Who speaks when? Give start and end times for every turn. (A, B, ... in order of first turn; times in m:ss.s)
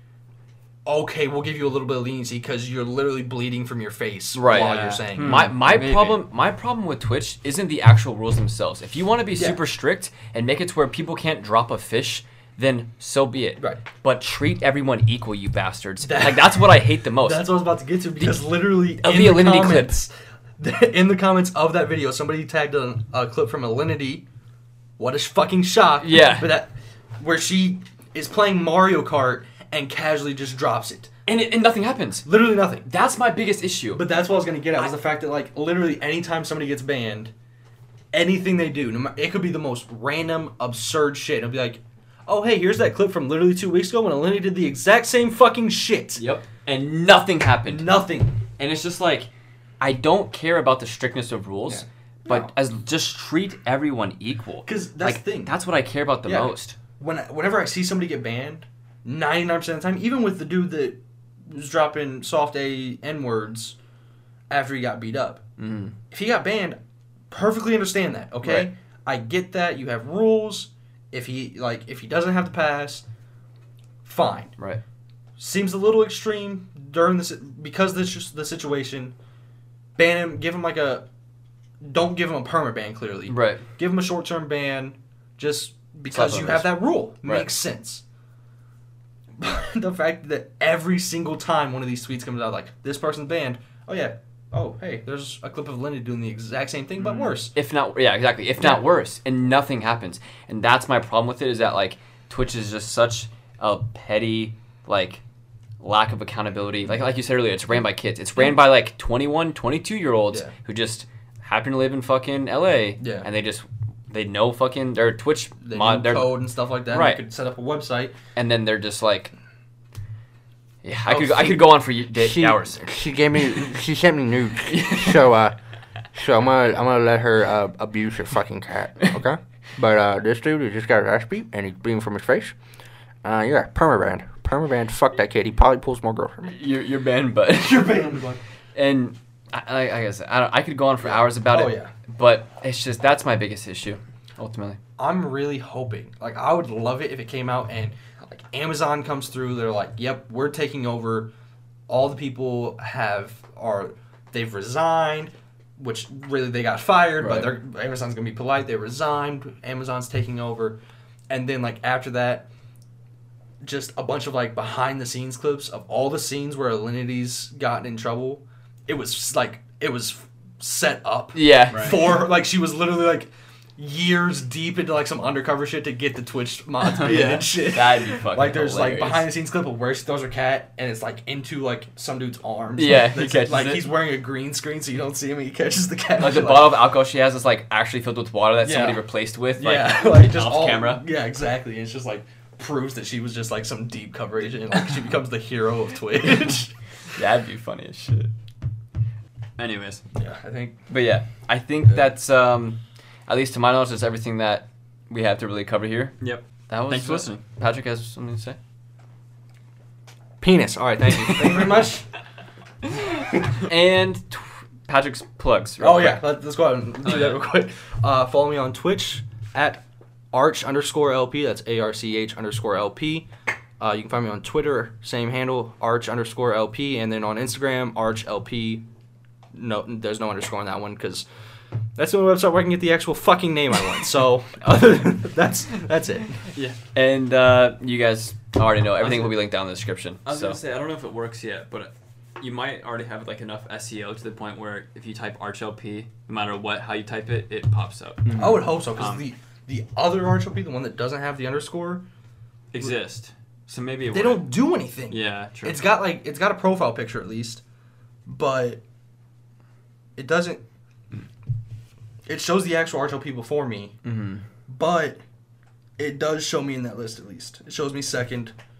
0:00.8-0:05.5 A
0:04.3-0:17.4 B
0:04.5-0:06.2 C
0:09.3-0:09.6 A
0:13.6-0:13.8 A
0:16.0-0:24.2 A
0:19.0-0:20.0 B
0:25.0-0:31.1 A
0:26.0-0:26.5 B
0:31.2-0:32.3 B
0:32.2-0:32.9 A
0:32.8-0:34.0 B
0:33.9-0:37.3 A
0:38.1-0:46.2 A
0:46.2-0:48.0 B
0:47.6-0:48.4 A
0:48.6-0:49.3 B
0:49.8-0:56.8 B
0:51.7-0:52.5 A
0:54.6-0:55.5 A
0:56.2-1:03.8 A
1:04.5-1:05.4 A
1:05.6-1:05.9 B
1:06.1-1:06.8 A
1:07.3-1:13.0 A
1:08.4-1:08.7 B
1:14.0-1:14.5 A
1:15.4-1:19.1 A
1:20.0-1:21.0 A
1:21.8-1:28.0 A
1:23.3-1:23.6 B
1:26.1-1:27.5 B
1:29.4-1:37.5 A
1:37.0-1:37.3 C
1:37.5-1:45.2 B
1:38.6-1:38.8 A
1:45.8-1:57.2 B
1:53.0-1:53.3 A
1:55.6-1:58.1 A
1:58.3-1:59.3 B
2:00.8-2:03.0 B
2:01.1-2:01.7 A
2:02.2-2:05.6 D
2:04.7-2:05.2 B
2:06.1-2:12.6 D
2:13.2-2:16.5 D
2:16.4-2:18.2 B
2:17.5-2:18.4 A
2:18.7-2:24.8 B
2:21.0-2:21.9 A
2:25.0-2:31.3 A
2:31.9-2:42.5 A
2:37.2-2:37.5 B
2:43.6-3:06.9 A
2:51.3-2:52.2 B
2:51.7-2:52.1 C
2:57.0-2:57.5 C
2:57.1-2:59.3 B
3:02.8-3:03.9 B
3:06.2-3:11.0 B
3:08.6-3:16.7 A
3:17.1-3:18.3 B
3:19.6-3:20.0 C
3:20.1-3:20.8 A
3:20.9-3:26.2 B
3:26.2-3:27.4 C
3:26.7-3:28.6 B
3:30.4-3:32.0 A
3:31.1-3:31.8 B
3:33.6-3:36.2 B
3:35.8-3:43.3 A
3:37.0-3:37.4 C
3:43.8-3:48.8 A
3:49.5-3:51.2 A
3:52.0-3:56.5 A
3:56.5-3:56.8 C
3:56.9-4:00.6 B
3:59.0-3:59.4 C
4:00.2-4:09.2 C
4:08.2-4:08.6 B
4:08.4-4:12.0 A
4:12.7-4:14.6 C
4:14.1-4:17.6 A
4:15.1-4:15.8 C
4:18.2-4:18.8 A
4:20.2-4:20.6 A
4:22.2-4:23.9 A
4:24.0-4:24.4 B
4:24.7-4:25.2 A
4:26.0-4:28.5 A